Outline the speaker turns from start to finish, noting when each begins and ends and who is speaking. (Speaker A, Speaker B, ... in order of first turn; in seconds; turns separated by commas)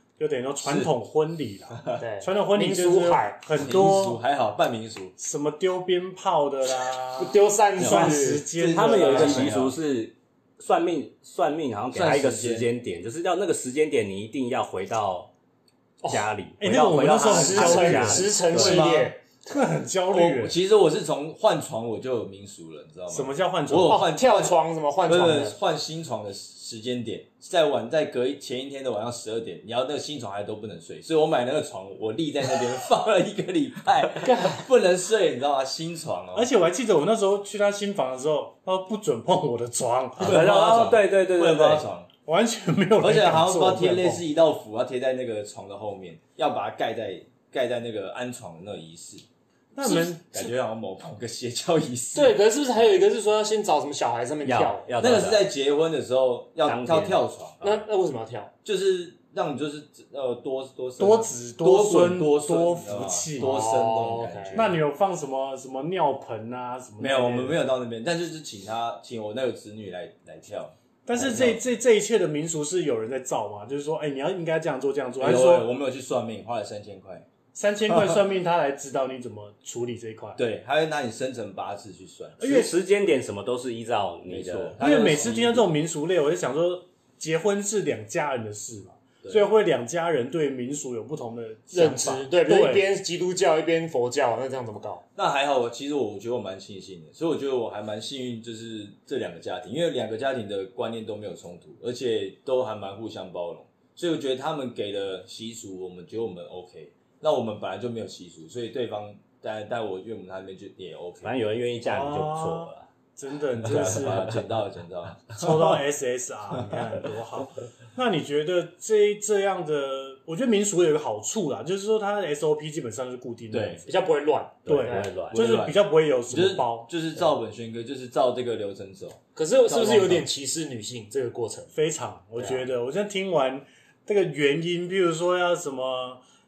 Speaker A: 0.2-4.2, Speaker B: 0.6-0.9, Speaker B: 1.7-2.0, Speaker C: 2.0-3.4, Speaker B: 3.5-5.1, Speaker A: 5.2-9.6, Speaker C: 7.2-8.4, Speaker D: 7.8-15.3, Speaker B: 8.5-9.8, Speaker B: 11.9-12.7, Speaker C: 16.0-16.3, Speaker D: 16.1-18.3, Speaker A: 16.6-20.5, Speaker C: 17.3-19.6, Speaker B: 18.5-19.1, Speaker B: 20.1-36.5, Speaker A: 23.1-24.0, Speaker C: 23.8-25.6, Speaker C: 34.2-34.6, Speaker A: 36.3-40.4, Speaker D: 40.2-41.9, Speaker B: 40.2-42.1, Speaker A: 42.2-44.2, Speaker B: 43.0-49.2, Speaker A: 49.7-50.4, Speaker B: 49.8-53.0, Speaker C: 52.1-54.9, Speaker D: 54.4-55.4, Speaker B: 55.0-57.7, Speaker D: 56.6-57.2, Speaker C: 57.6-58.5, Speaker B: 58.6-64.8, Speaker A: 61.0-63.6, Speaker C: 63.4-64.7, Speaker A: 64.5-67.6, Speaker B: 67.0-71.6, Speaker A: 71.0-75.7, Speaker B: 75.2-77.2, Speaker A: 77.5-80.4, Speaker B: 77.9-78.2, Speaker B: 80.4-82.6, Speaker A: 82.4-82.7, Speaker D: 82.4-84.8, Speaker B: 84.3-85.7, Speaker A: 84.8-92.8, Speaker B: 89.2-89.5, Speaker C: 91.7-95.0, Speaker B: 95.2-111.4, Speaker D: 111.2-112.9, Speaker A: 111.8-114.4, Speaker B: 113.6-115.8, Speaker A: 115.4-123.9, Speaker B: 123.5-123.8, Speaker C: 123.8-125.2, Speaker D: 124.7-125.4, Speaker A: 124.7-126.9, Speaker B: 125.3-130.3, Speaker C: 129.3-131.7, Speaker A: 131.7-136.2, Speaker C: 132.3-132.7